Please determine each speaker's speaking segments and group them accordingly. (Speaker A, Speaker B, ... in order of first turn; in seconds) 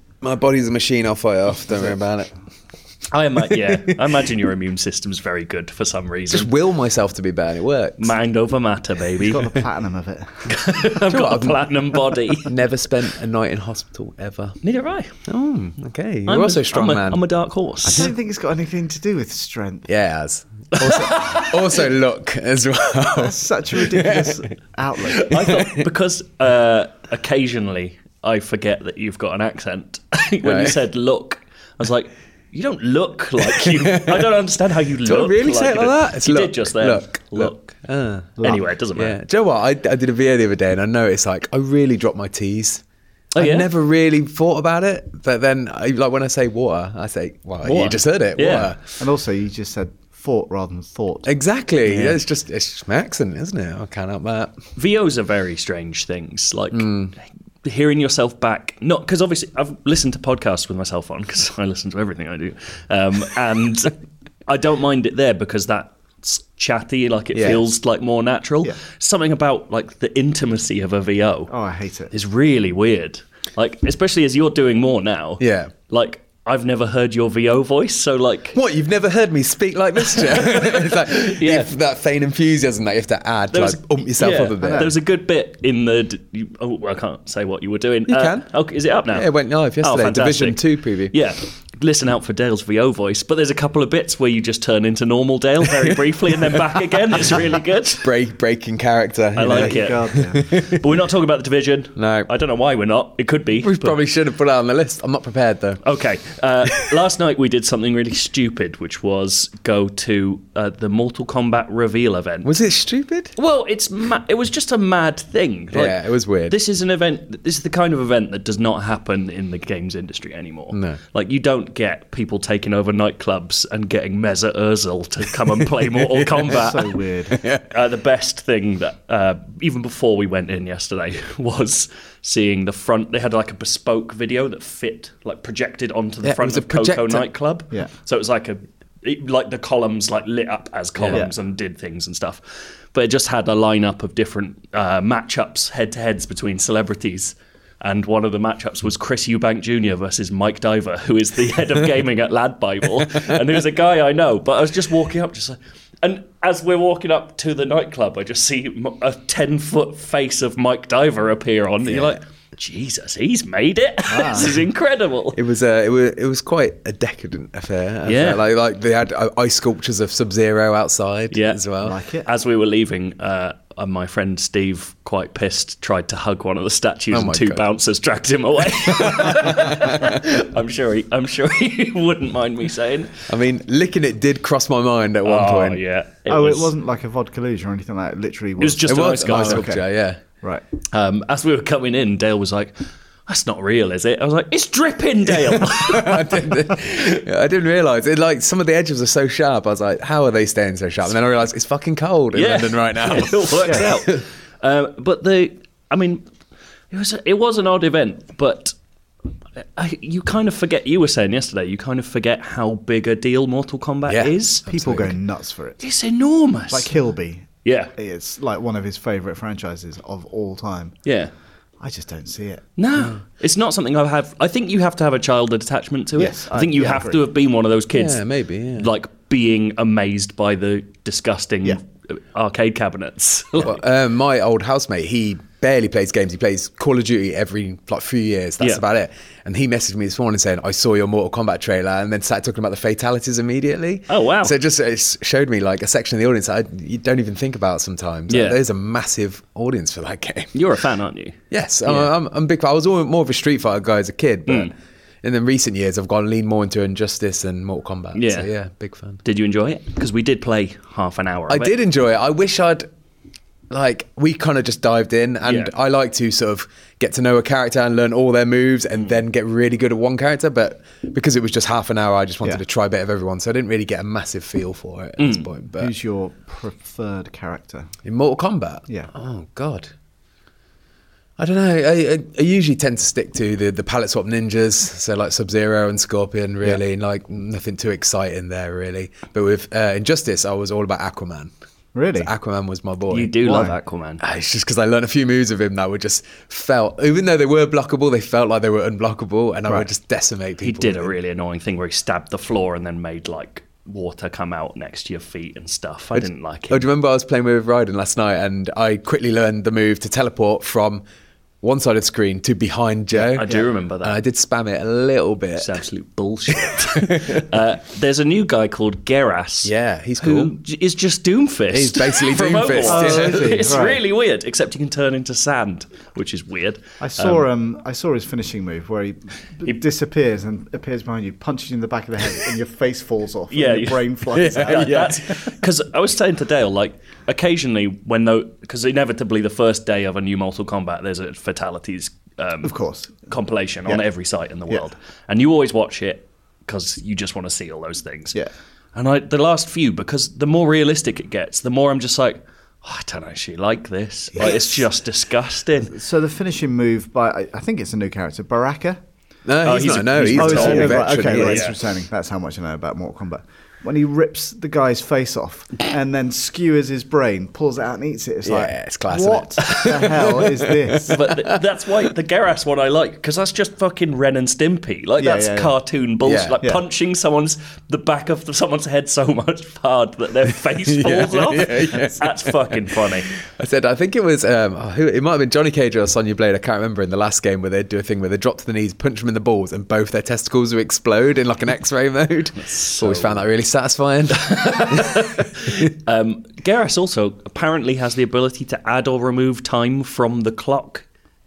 Speaker A: 0.2-2.3, 3.5-4.2, 6.3-8.1, 11.1-11.7, 12.4-14.6, 15.2-17.2, 19.9-24.4, 25.3-25.8, 30.4-30.8, 33.5-34.3, 35.0-42.8, 43.4-48.9, 51.3-54.6, 56.7-57.1, 67.3-67.6, 75.4-75.7, 78.5-84.9, 88.1-88.5, 89.1-91.2, 98.0-100.8, 102.0-102.3, 103.6-105.8, 112.4-113.3, 115.7-116.6, 120.7-121.0, 126.0-126.6, 127.3-127.7, 136.2-137.3, 141.0-141.2, 161.9-162.1, 165.3-172.0, 177.1-177.7, 178.8-180.2, 183.2-185.8, 188.9-190.2, 195.3-204.2, 214.1-215.1, 227.9-228.9, 233.6-250.6, 251.5-259.2, 261.5-262.9, 263.7-275.9, 278.1-279.9, 281.4-291.5, 292.2-293.7, 294.2-301.1, 306.1-311.0, 311.6-315.8, 316.6-317.5, 319.6-320.5, 321.7-323.6, 334.3-335.2, 359.5-361.7, 368.4-371.6, 376.2-376.6, 380.9-395.9
Speaker B: 3.1-6.5, 8.0-9.6, 10.5-12.5, 14.6-15.2, 16.3-18.1, 20.7-21.8, 25.1-37.8, 38.4-39.2, 43.3-43.7, 47.6-48.8, 51.8-52.2, 54.8-56.9, 57.6-64.0, 64.5-71.5, 72.1-78.6, 80.1-81.7, 83.5-89.3, 89.8-98.1, 99.3-104.0, 105.8-112.6, 113.4-127.0, 127.7-142.4, 142.9-165.4, 168.1-168.4, 171.3-171.6, 172.2-183.3, 185.2-186.7, 188.6-189.7, 190.9-196.8, 202.3-206.2, 206.9-208.8, 209.8-214.7, 215.8-216.9, 217.6-217.9, 221.1-221.3, 222.8-233.8, 244.1-244.6, 248.3-248.6, 250.5-252.1, 254.5-254.7, 258.1-258.5, 259.2-261.7, 265.4-265.7, 275.2-275.5, 293.1-294.2, 300.6-306.9, 313.2-314.2, 315.6-327.4, 333.5-348.4, 348.9-355.9, 359.6-361.8, 371.0-383.3, 392.6-393.4, 394.3-401.1
Speaker C: 9.1-10.5, 17.9-19.9, 23.1-25.4, 38.4-38.6, 49.0-51.3, 71.5-72.1, 84.6-85.0, 99.5-100.5, 126.5-127.4, 164.1-164.6, 171.8-172.3, 186.3-189.8, 214.7-215.8, 216.7-221.0, 221.8-222.7, 226.2-227.2, 275.8-277.9, 291.9-292.3, 293.4-293.7, 322.8-324.0, 327.0-335.4, 342.6-343.3, 354.4-354.7, 355.9-359.0, 360.3-371.2, 375.2-375.8